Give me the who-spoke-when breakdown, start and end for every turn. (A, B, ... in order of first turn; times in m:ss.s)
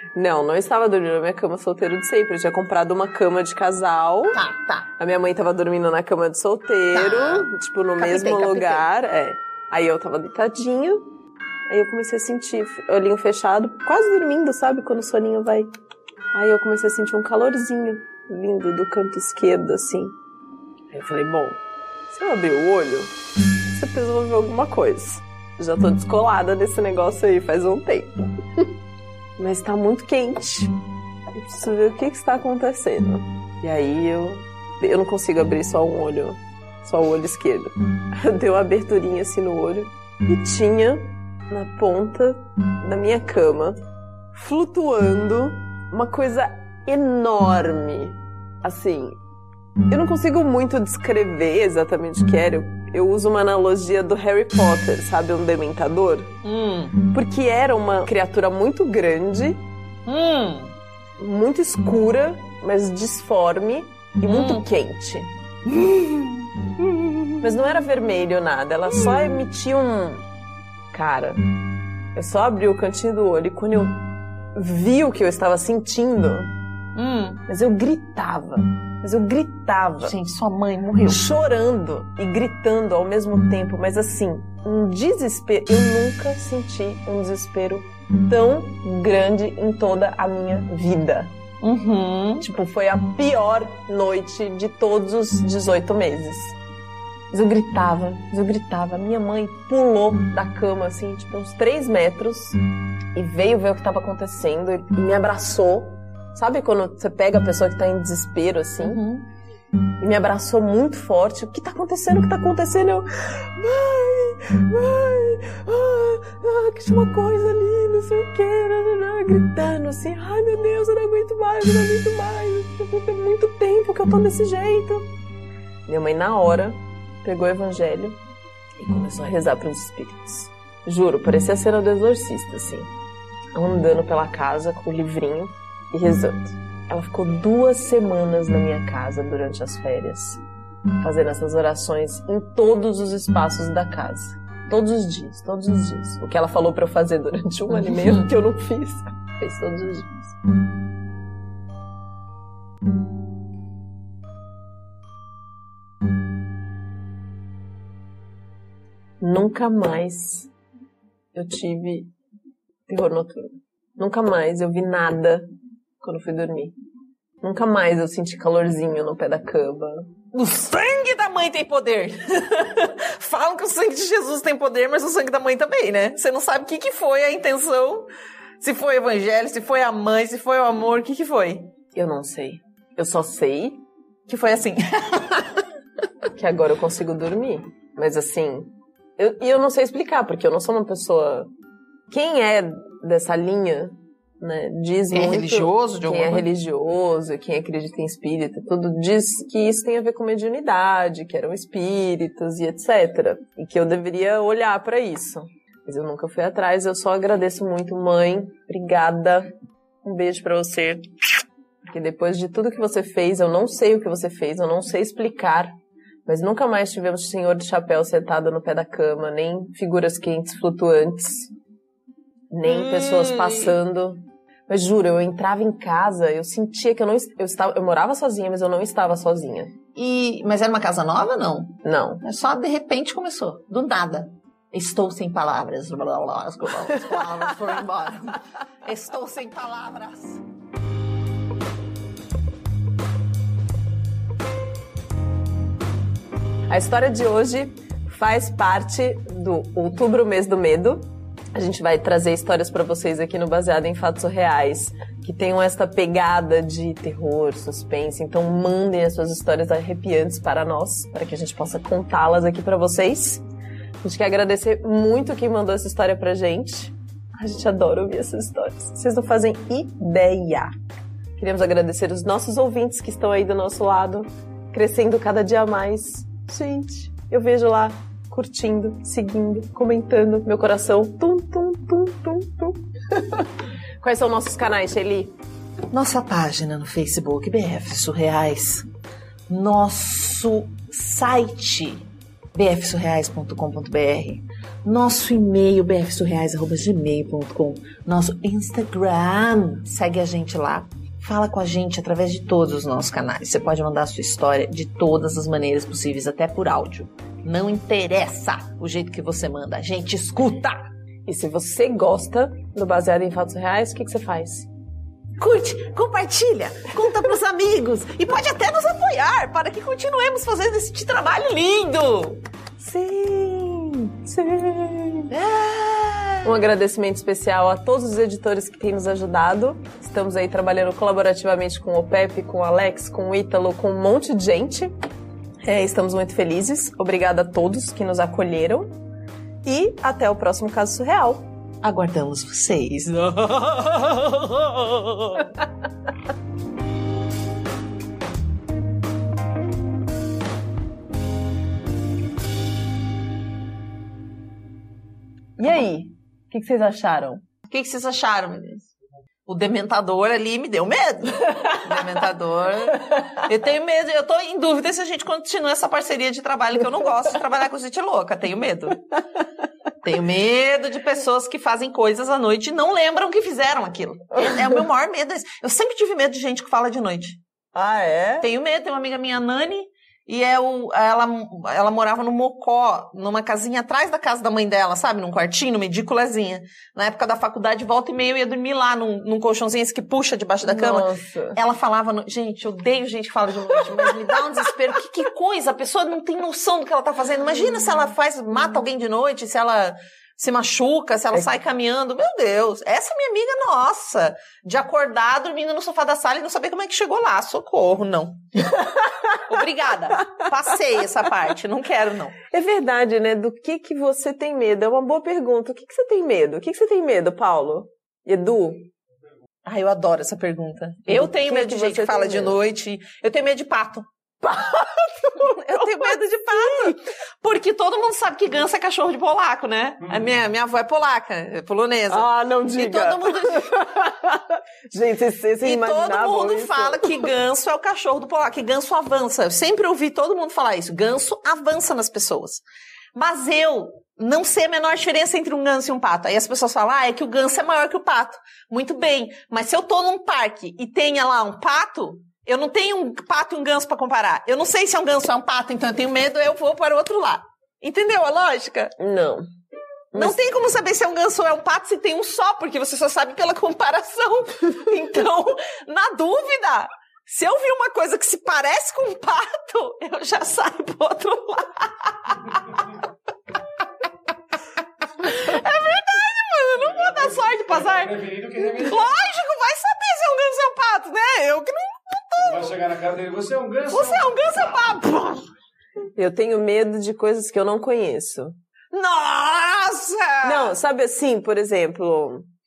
0:00.1-0:04.4 A
0:04.3-0:04.9 B
0:05.0-0:11.0 A
0:06.9-0:08.8 B
0:11.7-0:15.7 A
0:16.3-0:20.2 A
0:20.9-0:23.1 A
0:23.7-0:28.7 A
0:29.4-0:30.7 A
0:31.3-0:43.8 A
0:44.3-0:49.2 A
0:49.9-0:56.4 A
0:56.4-0:57.0 B
0:57.1-0:59.6 A
1:00.0-1:00.7 B
1:01.2-1:05.3 A
1:04.2-1:04.6 B
1:05.6-1:07.1 B
1:07.4-1:10.2 A
1:08.9-1:09.4 B
1:10.9-1:11.4 A
1:12.1-1:16.5 A
1:16.9-1:17.4 B
1:17.5-1:20.2 A
1:20.0-1:21.2 B
1:21.0-1:31.3 A
1:31.6-1:32.4 B
1:32.4-1:36.6 A
1:37.3-1:42.6 A
1:43.1-1:49.0 A
1:48.8-1:49.2 B
1:50.0-2:05.1 A
2:05.9-2:08.2 A
2:08.8-2:12.9 A
2:13.5-2:20.4 A
2:21.0-2:30.4 A
2:39.2-2:40.5 A
2:41.3-2:42.1 A
2:42.9-2:45.5 A
2:46.0-2:46.7 A
2:47.4-2:50.1 A
2:50.3-2:58.1 B
2:58.6-3:01.7 B
3:01.9-3:03.8 A
3:04.3-3:05.6 B
3:06.4-3:11.5 A
3:12.1-3:29.5 A
3:15.1-3:16.5 B
3:30.0-3:31.1 A
3:31.8-3:41.5 A
3:42.5-3:49.8 A
3:42.6-3:43.7 B
3:50.0-4:00.4 B
3:51.8-3:52.2 A
4:06.7-4:23.4 A
4:24.0-4:30.7 A
4:31.4-4:43.4 A
4:44.0-4:45.3 A
4:45.9-4:48.9 B
4:49.5-5:10.8 B
5:11.2-5:14.7 A
5:15.4-5:22.4 B
5:22.8-5:25.3 A
5:25.3-5:26.5 B
5:26.4-5:34.9 A
5:35.6-5:39.0 A
5:39.6-5:41.5 A
5:41.8-5:45.5 B
5:55.6-5:57.4 A
5:57.6-5:58.9 B
5:59.5-6:09.0 B
6:10.0-6:17.4 B
6:17.7-6:18.5 A
6:18.4-6:48.7 B
6:30.6-6:31.6 A
6:49.3-6:52.4 B
6:52.5-6:58.9 A
6:59.6-7:04.1 B
7:01.1-7:02.6 A
7:04.4-7:06.0 A
7:05.3-7:14.0 B
7:12.1-7:17.2 A
7:15.6-7:22.6 B
7:23.1-7:38.9 B
7:39.0-7:39.5 A
7:40.1-7:40.4 A
7:40.1-7:52.8 B
7:55.2-8:02.8 B
7:57.1-7:59.0 C
8:02.4-8:04.3 C
8:03.9-8:05.5 B
8:06.2-8:08.6 A
8:08.9-8:10.7 B
8:10.4-8:12.4 A